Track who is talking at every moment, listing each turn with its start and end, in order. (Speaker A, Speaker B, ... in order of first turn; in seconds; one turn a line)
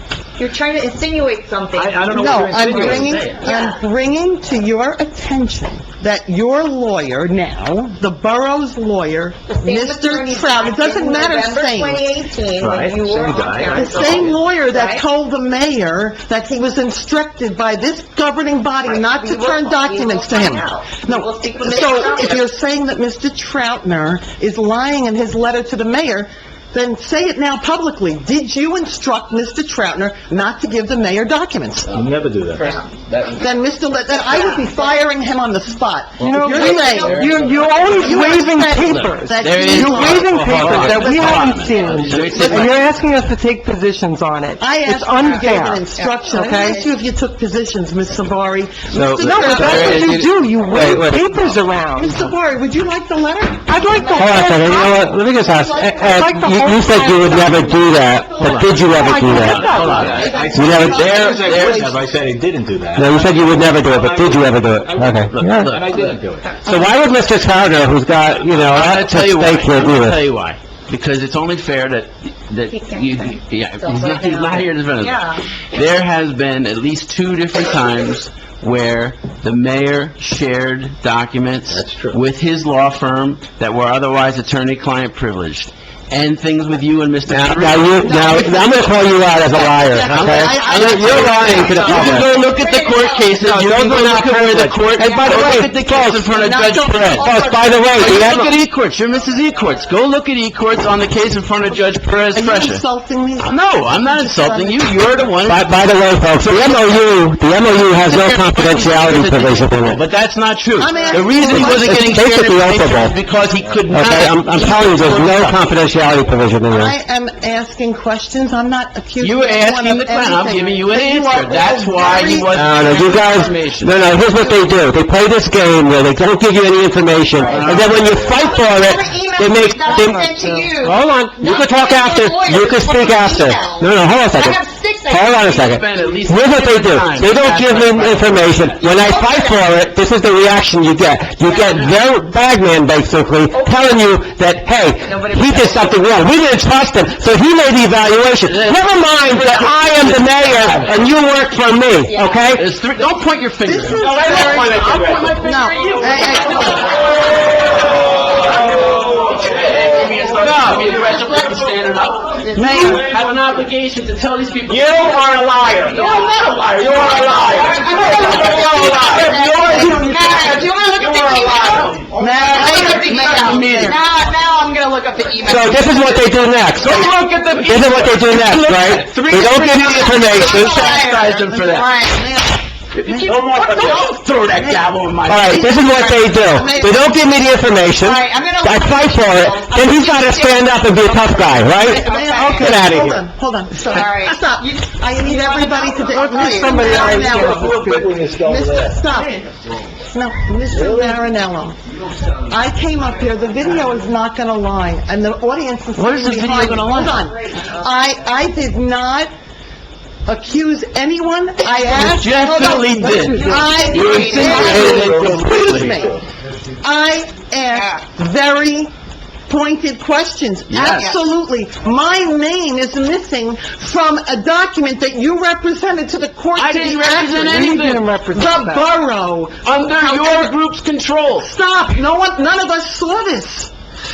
Speaker A: 0.4-3.8
Speaker B: 1.7-3.2
Speaker C: 2.1-12.1
Speaker D: 2.7-3.3
Speaker A: 9.5-15.0
Speaker B: 12.6-14.4
Speaker C: 13.7-32.0
Speaker A: 18.8-22.5
Speaker D: 31.9-33.6
Speaker B: 31.9-32.8
Speaker C: 33.4-37.2
Speaker A: 34.2-35.0
Speaker E: 36.2-46.8
Speaker A: 36.2-38.4
Speaker D: 36.6-42.9
Speaker C: 37.9-41.6
Speaker B: 40.4-41.2
Speaker A: 41.6-42.1
Speaker C: 42.3-42.6
Speaker C: 44.6-50.3
Speaker A: 45.2-46.8
Speaker F: 48.9-51.3
Speaker E: 49.2-52.3
Speaker C: 51.9-53.7
Speaker E: 53.7-54.9
Speaker A: 53.8-61.8
Speaker F: 54.1-59.7
Speaker E: 56.0-57.7
Speaker B: 58.4-66.6
Speaker E: 58.9-60.3
Speaker D: 59.3-62.0
Speaker F: 60.5-61.1
Speaker C: 60.6-61.9
Speaker F: 63.0-65.8
Speaker D: 65.2-66.2
Speaker A: 66.6-66.9
Speaker F: 66.6-70.2
Speaker D: 68.5-88.4
Speaker A: 72.7-75.4
Speaker B: 81.7-82.2
Speaker F: 87.3-92.3
Speaker C: 88.0-92.3
Speaker D: 90.1-97.4
Speaker A: 91.6-93.5
Speaker F: 93.4-96.2
Speaker A: 95.0-95.4
Speaker C: 96.3-98.2
Speaker F: 96.9-98.5
Speaker A: 97.6-97.9
Speaker D: 98.0-102.8
Speaker C: 102.3-105.3
Speaker D: 103.4-105.7
Speaker F: 105.5-110.0
Speaker D: 106.4-107.0
Speaker D: 108.0-115.6
Speaker C: 110.8-112.2
Speaker F: 111.4-113.2
Speaker F: 113.9-116.9
Speaker C: 116.7-122.6
Speaker D: 119.2-124.1
Speaker F: 122.5-152.7
Speaker D: 127.4-128.3
Speaker A: 127.5-135.6
Speaker E: 130.0-130.4
Speaker D: 135.4-138.9
Speaker A: 138.8-139.7
Speaker D: 141.6-142.0
Speaker A: 143.5-143.8
Speaker A: 145.0-146.0
Speaker D: 148.4-151.1
Speaker A: 152.1-152.4
Speaker D: 152.5-174.0
Speaker C: 153.6-154.7
Speaker F: 154.0-155.3
Speaker A: 154.2-154.9
Speaker C: 155.4-157.0
Speaker A: 156.5-156.9
Speaker A: 161.1-163.2
Speaker C: 162.6-163.0
Speaker B: 164.7-166.0
Speaker A: 165.9-176.3
Speaker F: 169.5-170.0
Speaker C: 172.1-174.0
Speaker F: 175.4-177.1
Speaker D: 176.8-182.0
Speaker A: 176.8-177.2
Speaker F: 177.6-180.9
Speaker A: 179.8-182.3
Speaker C: 181.4-187.0
Speaker D: 182.9-185.7
Speaker A: 183.1-184.0
Speaker F: 185.2-193.2
Speaker A: 185.9-187.0
Speaker A: 188.0-192.9
Speaker C: 191.8-199.4
Speaker A: 193.9-197.7
Speaker E: 196.1-198.1
Speaker B: 197.0-199.1
Speaker A: 199.2-199.4
Speaker C: 200.1-201.8
Speaker B: 200.7-201.2
Speaker C: 202.4-209.3
Speaker D: 205.9-207.2
Speaker A: 206.8-208.1
Speaker C: 210.3-216.2
Speaker D: 211.6-216.0
Speaker E: 213.0-213.8
Speaker A: 213.1-215.0
Speaker B: 214.5-216.1
Speaker C: 216.8-218.9
Speaker A: 217.7-218.0
Speaker C: 219.5-230.6
Speaker D: 220.7-221.1
Speaker A: 220.9-221.2
Speaker D: 226.5-228.1
Speaker E: 227.4-228.9
Speaker D: 229.6-231.5
Speaker C: 231.4-233.7